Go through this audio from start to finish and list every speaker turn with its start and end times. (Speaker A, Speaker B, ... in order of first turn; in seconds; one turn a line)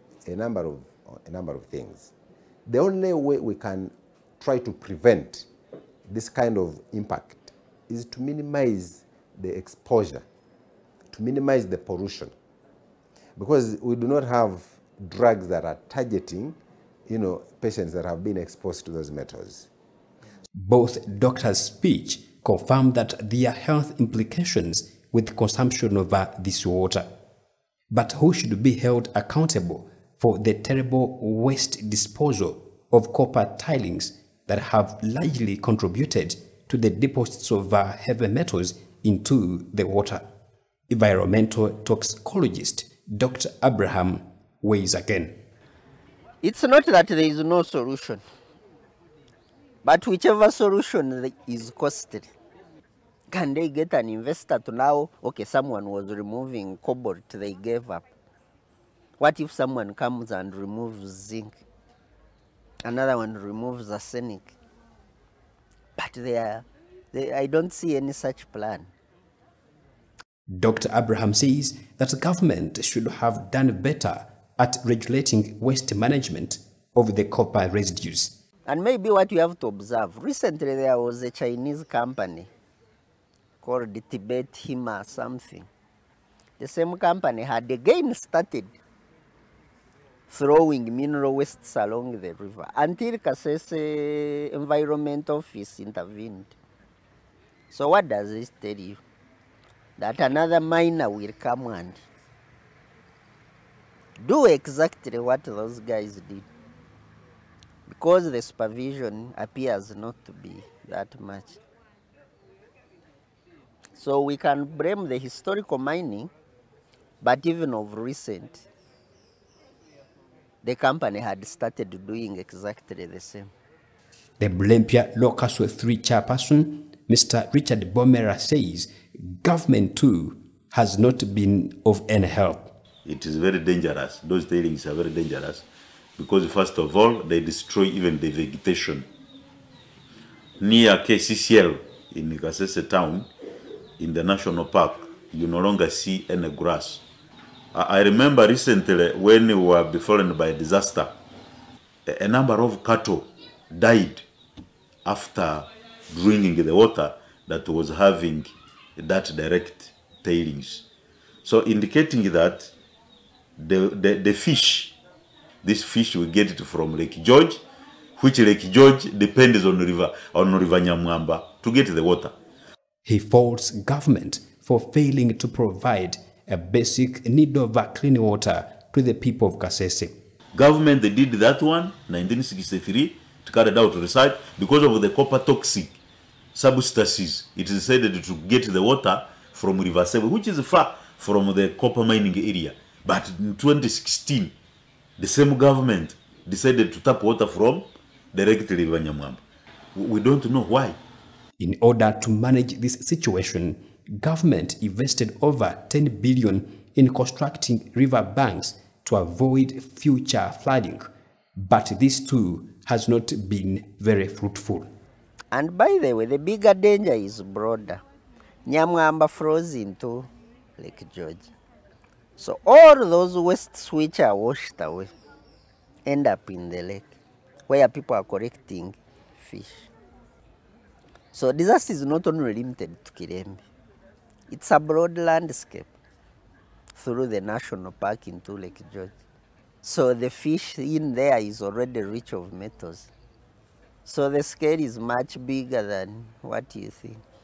Speaker A: 0.3-2.1
Speaker A: 2.7-5.5
Speaker A: 6.1-10.2
Speaker A: 11.1-12.3
Speaker A: 13.4-19.7
Speaker B: 20.6-27.1
Speaker B: 27.9-40.2
Speaker B: 40.9-45.4
Speaker C: 46.4-48.2
Speaker C: 49.9-52.3
Speaker C: 53.3-58.1
Speaker C: 59.2-61.6
Speaker C: 62.8-64.6
Speaker C: 66.0-68.9
Speaker B: 70.5-78.3
Speaker C: 78.7-82.5
Speaker C: 83.6-85.7
Speaker C: 86.6-88.7
Speaker C: 90.3-96.5
Speaker C: 97.7-99.0
Speaker C: 100.0-102.0
Speaker C: 104.2-106.5
Speaker C: 107.9-111.6
Speaker C: 114.0-116.3
Speaker C: 117.2-118.7
Speaker C: 120.6-123.5
Speaker B: 124.4-132.7
Speaker D: 133.1-135.7
Speaker D: 136.2-139.1
Speaker D: 140.6-143.3
Speaker D: 144.0-147.0
Speaker D: 147.7-151.1
Speaker D: 152.1-154.2
Speaker D: 155.1-160.8
Speaker D: 161.4-162.7
Speaker D: 163.6-164.9
Speaker D: 165.6-167.6
Speaker D: 168.2-172.3
Speaker B: 173.1-180.2
Speaker D: 180.5-186.0
Speaker D: 186.5-194.5
Speaker D: 195.2-199.4
Speaker D: 199.9-201.0
Speaker B: 201.6-214.9
Speaker C: 215.5-218.0
Speaker C: 218.7-221.5
Speaker C: 222.4-225.1
Speaker C: 226.1-227.2
Speaker C: 227.7-229.9
Speaker C: 231.3-233.6
Speaker C: 234.5-235.9
Speaker C: 236.9-239.2
Speaker C: 239.8-243.1
Speaker C: 244.1-247.2